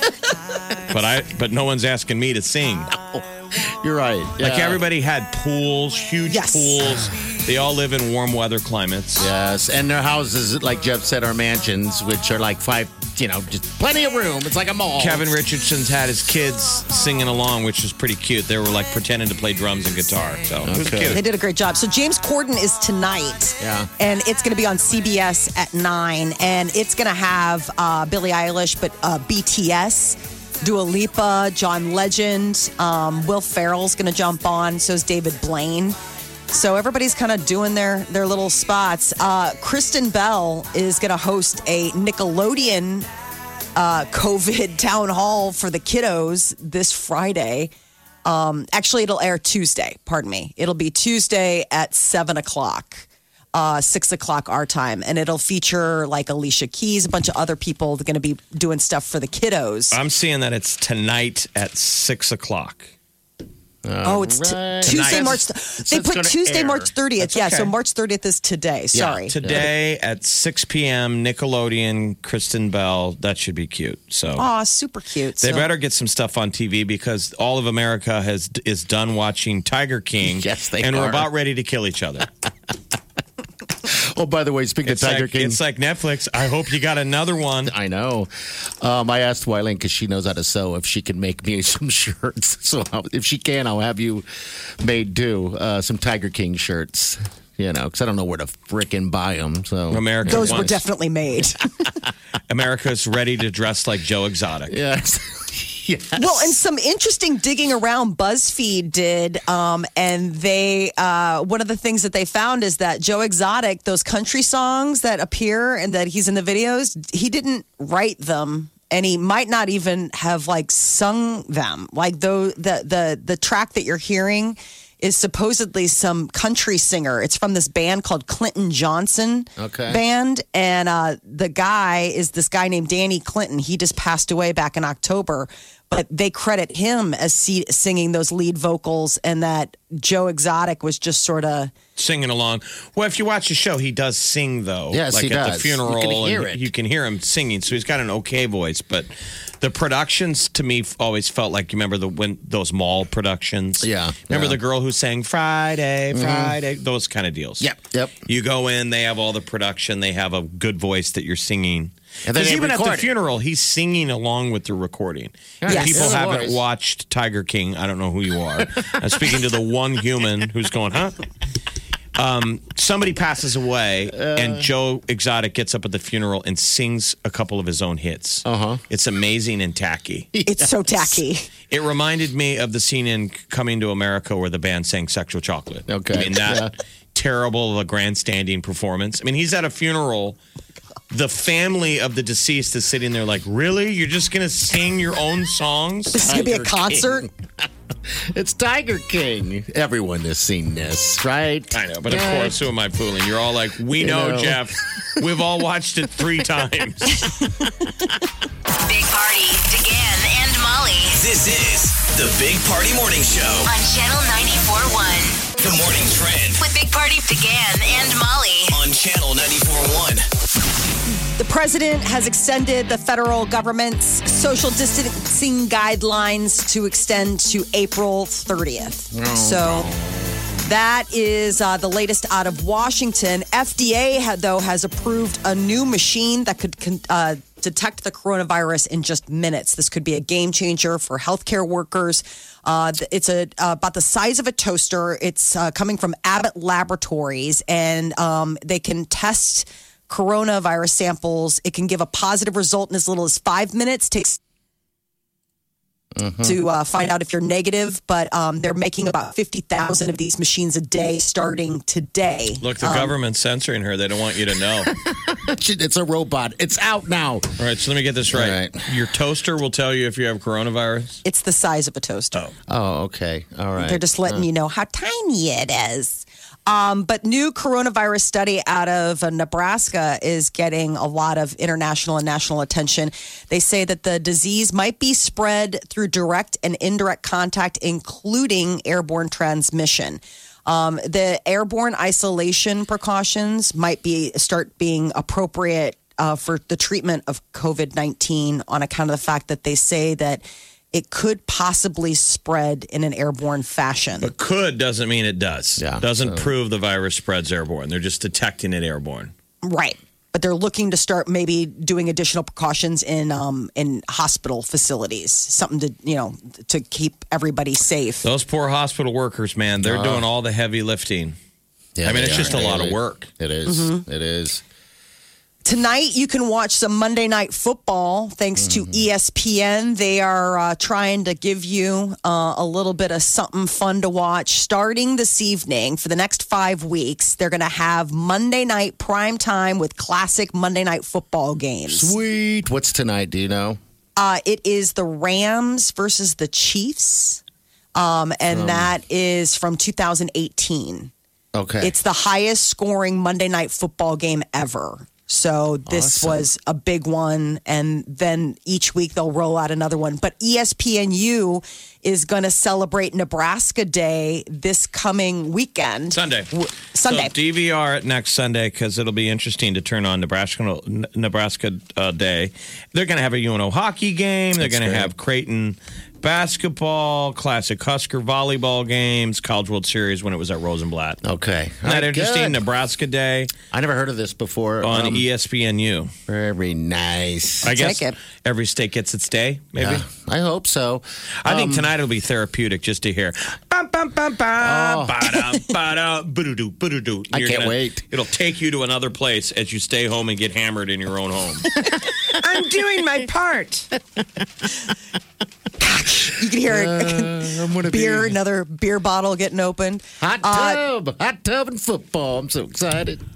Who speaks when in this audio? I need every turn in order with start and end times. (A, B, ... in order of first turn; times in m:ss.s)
0:00.9-0:02.9 A
0:02.9-0:04.8 B
0:04.4-0:09.3 A
0:06.3-0:06.8 C
0:09.2-0:15.2 B
0:15.0-0:21.2 A
0:20.6-0:21.2 B
0:21.1-0:36.0 C
0:23.6-0:23.9 B
0:36.5-0:43.1 C
0:43.8-0:47.7 C
0:48.2-1:00.0 C
0:59.9-1:02.9 A
1:03.8-1:06.9 B
1:04.0-1:09.3 C
1:04.8-1:05.4 A
1:07.2-1:07.7 A
1:08.9-1:09.7 B
1:09.2-1:14.4 A
1:14.4-1:15.7 C
1:15.4-1:22.3 A
1:20.2-1:21.3 B
1:23.8-1:25.6 B
1:24.8-1:27.7 A
1:27.6-1:34.2 B
1:34.8-1:40.7 B
1:39.9-1:40.8 A
1:40.2-1:41.6 C
1:42.5-1:44.7 A
1:44.7-1:46.5 B
1:46.2-2:21.7 C
2:09.6-2:10.0 B
2:22.0-2:29.1 A
2:24.9-2:26.7 B
2:29.6-2:37.7 A
2:33.8-2:34.6 B
2:36.1-2:36.6 B
2:37.6-2:38.2 B
2:38.2-2:51.2 A
2:42.2-2:43.1 B
2:45.6-2:46.6 B
2:45.7-2:46.2 C
2:52.2-3:00.3 A
2:54.1-2:54.7 B
2:58.4-2:58.8 B
3:00.3-3:01.2 B
3:00.4-3:01.4 C
3:01.7-3:10.4 A
3:05.9-3:06.7 B
3:11.1-3:16.2 A
3:16.1-3:17.2 C
3:16.2-3:22.6 B
3:21.7-3:27.2 A
3:24.0-3:24.7 B
3:28.8-3:31.2 D
3:31.1-3:33.7 E
3:33.6-3:35.5 D
3:35.6-3:36.6 E
3:36.6-3:38.8 D
3:38.7-3:40.2 E
3:41.4-3:49.9 C
3:49.1-3:50.4 B
3:50.6-4:14.4 C
4:16.1-4:16.6 B
4:16.4-4:23.1 C
4:22.6-4:24.9 A
4:24.8-4:27.5 B
4:27.6-4:31.2 A
4:28.3-4:28.9 B
4:31.2-4:32.4 C
4:32.7-4:34.5 B
4:33.8-5:04.3 C
5:04.2-5:09.3 A
5:05.8-5:06.5 B
5:09.6-5:18.2 C
5:18.2-5:21.4 A
5:19.8-5:20.2 B
5:22.0-5:24.6 B
5:22.0-5:23.3 A
5:23.6-5:24.0 C
5:25.6-5:42.1 C
5:28.6-5:29.0 B
5:41.9-5:43.8 B
5:44.2-5:47.4 C
5:47.9-5:51.1 C
5:48.5-5:48.9 B
5:51.5-5:51.9 B
5:51.8-6:07.3 C
5:55.8-5:56.5 B
6:06.1-6:06.5 A
6:07.0-6:21.2 A
6:14.6-6:15.1 B
6:21.2-6:22.6 B
6:21.8-6:23.5 A
6:23.7-6:25.2 B
6:24.8-6:26.1 A
6:26.3-6:27.7 B
6:27.6-6:30.0 A
6:27.7-6:28.2 C
6:29.8-6:31.9 B
6:31.4-6:41.7 A
6:34.6-6:35.4 B
6:37.3-6:38.0 B
6:42.8-6:43.1 C
6:45.8-6:50.8 C
6:46.6-6:48.4 B
6:50.2-6:53.2 B